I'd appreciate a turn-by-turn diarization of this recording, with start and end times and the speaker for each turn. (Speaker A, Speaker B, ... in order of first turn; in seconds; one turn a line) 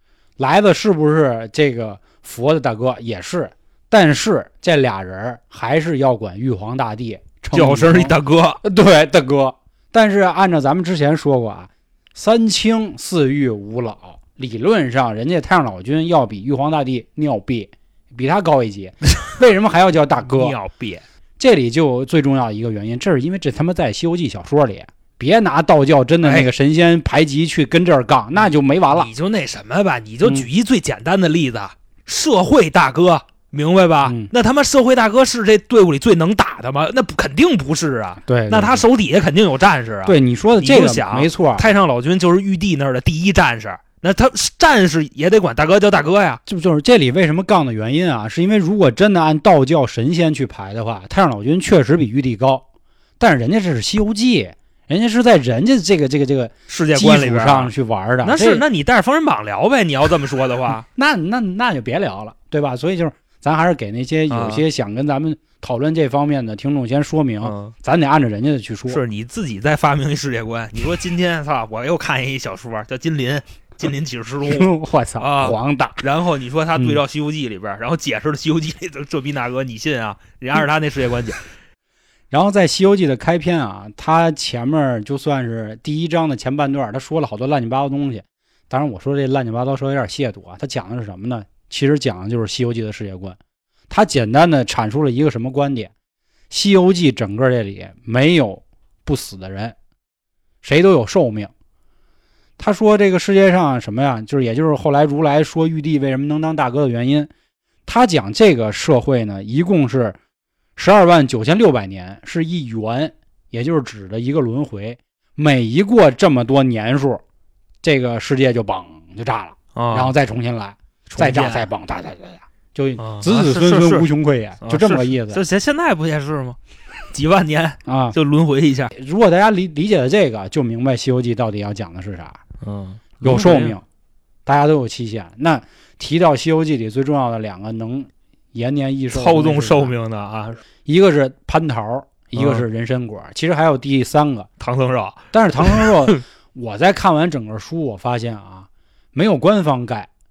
Speaker A: 0.4-20.6
Speaker B: 7.5-8.6
Speaker B: 20.2-21.0
Speaker A: 21.4-29.1
Speaker B: 26.2-26.5
Speaker B: 28.9-46.4
Speaker A: 34.0-34.3
Speaker A: 38.2-38.8
Speaker A: 40.0-41.7
Speaker A: 46.5-52.6
Speaker A: 53.2-58.6
Speaker B: 56.7-60.9
Speaker A: 60.9-69.0
Speaker B: 64.3-64.6
Speaker B: 67.4-67.7
Speaker B: 68.9-81.4
Speaker A: 74.5-76.0
Speaker A: 82.3-93.4
Speaker A: 93.9-95.9
Speaker A: 96.5-99.8
Speaker A: 100.6-101.5
Speaker A: 102.6-107.3
Speaker A: 107.8-110.2
Speaker A: 110.8-117.2
Speaker A: 117.8-125.4
Speaker B: 119.7-120.1
Speaker B: 121.1-121.7
Speaker B: 123.0-124.1
Speaker B: 124.6-126.6
Speaker B: 127.1-128.9
Speaker A: 127.8-128.2
Speaker A: 128.9-132.4
Speaker B: 132.6-133.8
Speaker A: 133.2-133.8
Speaker A: 134.4-139.9
Speaker B: 139.1-140.6
Speaker A: 140.8-144.5
Speaker B: 142.3-142.6
Speaker B: 144.6-146.2
Speaker A: 145.3-150.1